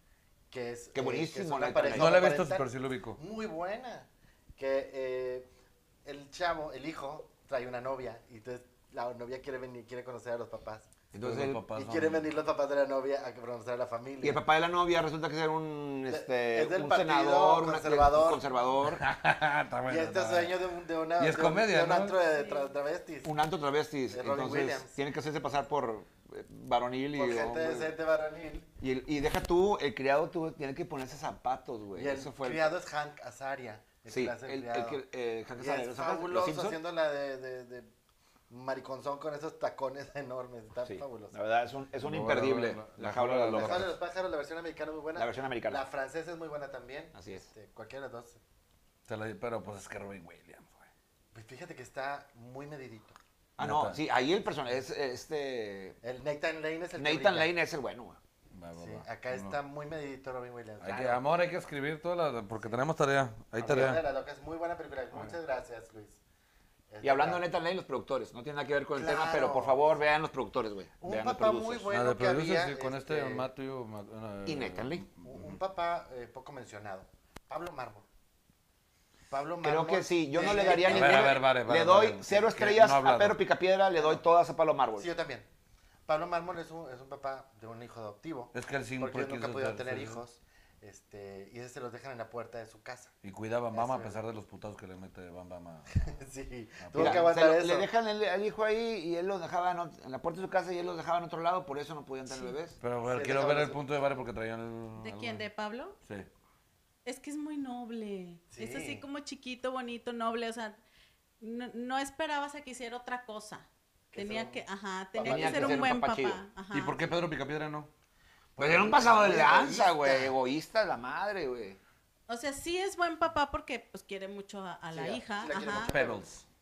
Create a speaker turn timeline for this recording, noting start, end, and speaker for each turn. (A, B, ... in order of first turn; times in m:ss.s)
0:00.5-0:05.5 A
0:01.0-0:02.3 B
0:01.9-0:03.2 C
0:06.0-0:10.9 A
0:11.1-0:11.6 B
0:11.2-0:12.3 C
0:11.7-0:14.4 A
0:14.2-0:19.1 B
0:16.1-0:18.4 A
0:18.9-0:20.6 C
0:19.9-0:23.3 A
0:21.2-0:22.2 C
0:22.3-0:22.7 D
0:23.2-0:27.9 B
0:24.1-0:24.9 A
0:27.2-0:28.7 A
0:28.8-0:32.8 B
0:32.0-0:35.0 A
0:34.1-0:36.8 B
0:35.6-0:37.9 A
0:38.5-0:41.4 A
0:40.8-0:43.9 B
0:42.0-0:44.0 C
0:43.6-0:48.4 A
0:45.2-0:45.8 B
0:47.1-0:47.5 B
0:49.1-0:50.9 C
0:51.3-0:53.2 A
0:53.6-0:56.0 B
0:53.6-0:54.0 C
0:56.0-0:57.5 A
0:57.0-0:58.2 B
0:58.5-0:59.6 C
0:58.8-1:01.2 A
1:00.8-1:04.0 C
1:03.6-1:06.2 A
1:03.7-1:03.9 B
1:06.9-1:07.4 A
1:07.0-1:11.9 B
1:09.0-1:09.9 A
1:11.0-1:13.5 A
1:11.9-1:15.6 C
1:14.4-1:15.1 B
1:15.2-1:18.0 A
1:19.3-1:21.4 A
1:19.6-1:25.1 B
1:20.5-1:23.4 C
1:25.0-1:25.5 A
1:26.1-1:33.1 A
1:28.5-1:30.2 C
1:33.2-1:36.0 C
1:33.7-1:34.2 A
1:36.0-1:37.9 A
1:36.8-1:37.3 C
1:36.9-1:42.8 B
1:42.3-1:42.5 D
1:42.8-1:45.5 C
1:43.1-1:43.8 A
1:45.0-1:46.0 D
1:47.0-1:50.8 D
1:48.5-1:49.0 A
1:51.4-1:57.0 D
1:54.1-1:54.6 A
1:55.2-1:55.9 A
1:55.2-1:56.4 B
1:56.7-1:57.9 C
1:58.6-2:00.3 A
1:58.6-2:01.8 B
2:02.3-2:06.0 D
2:04.9-2:06.2 A
2:05.8-2:06.4 C